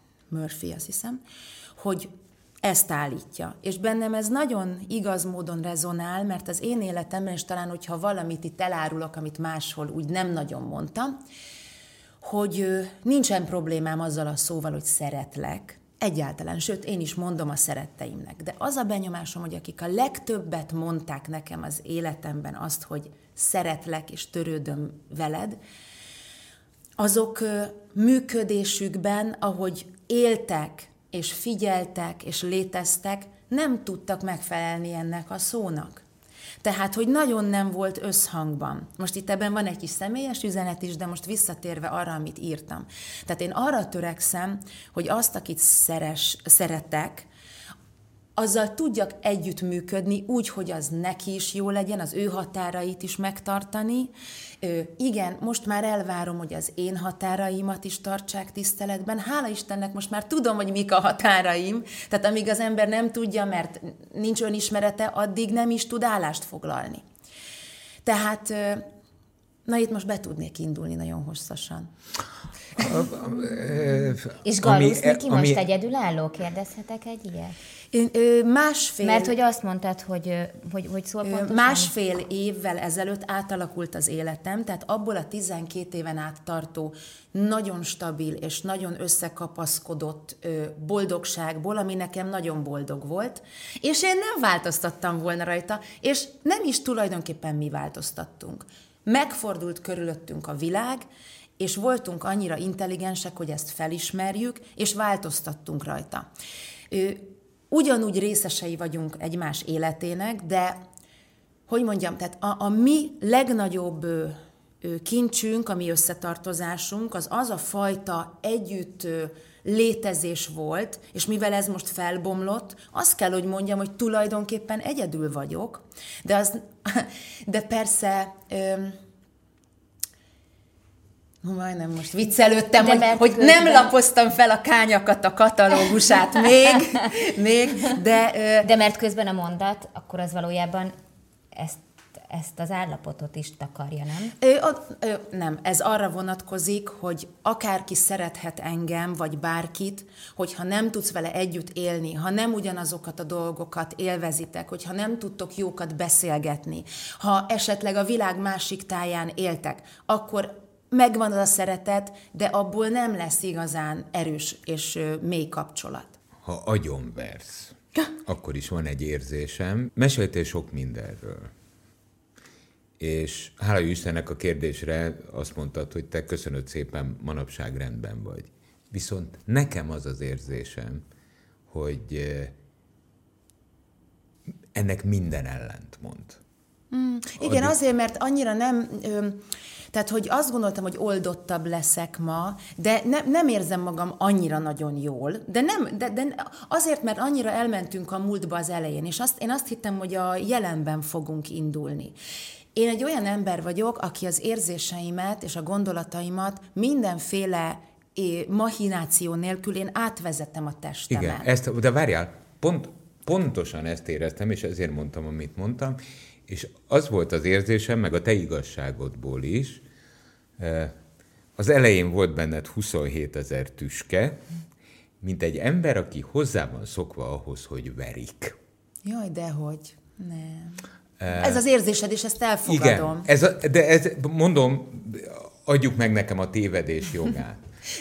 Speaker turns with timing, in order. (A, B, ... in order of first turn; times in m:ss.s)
0:00.3-0:01.2 A
0:01.8-0:02.1 A
0:02.6-0:11.2 A
0:12.2-0:25.6 A
0:27.0-0:36.0 A
0:36.6-0:47.3 A
0:48.4-1:07.0 A
1:08.0-1:08.8 A
1:09.6-1:11.9 A
1:12.8-1:15.6 B
1:14.4-1:17.5 C
1:17.9-1:19.3 A
1:19.0-1:21.9 C
1:21.2-1:41.0 A
1:41.6-1:46.2 A
1:46.9-1:50.8 A
1:51.7-2:09.0 A
2:11.4-2:18.7 A
2:12.8-2:13.9 C
2:18.6-2:20.9 C
2:21.5-2:24.3 C
2:24.4-2:46.2 A
2:46.4-2:51.5 B
2:53.0-3:01.0 B
3:01.7-3:02.5 B
3:04.7-3:06.4 B
3:06.9-3:09.4 A
3:07.4-3:07.7 B
3:09.9-3:22.1 A
3:22.7-3:31.5 A
3:31.1-3:39.8 B
3:40.6-3:40.9 B
3:41.6-3:44.4 B
3:45.2-3:48.6 B
3:49.0-3:53.3 A
3:51.2-3:51.6 B
3:52.6-3:57.6 B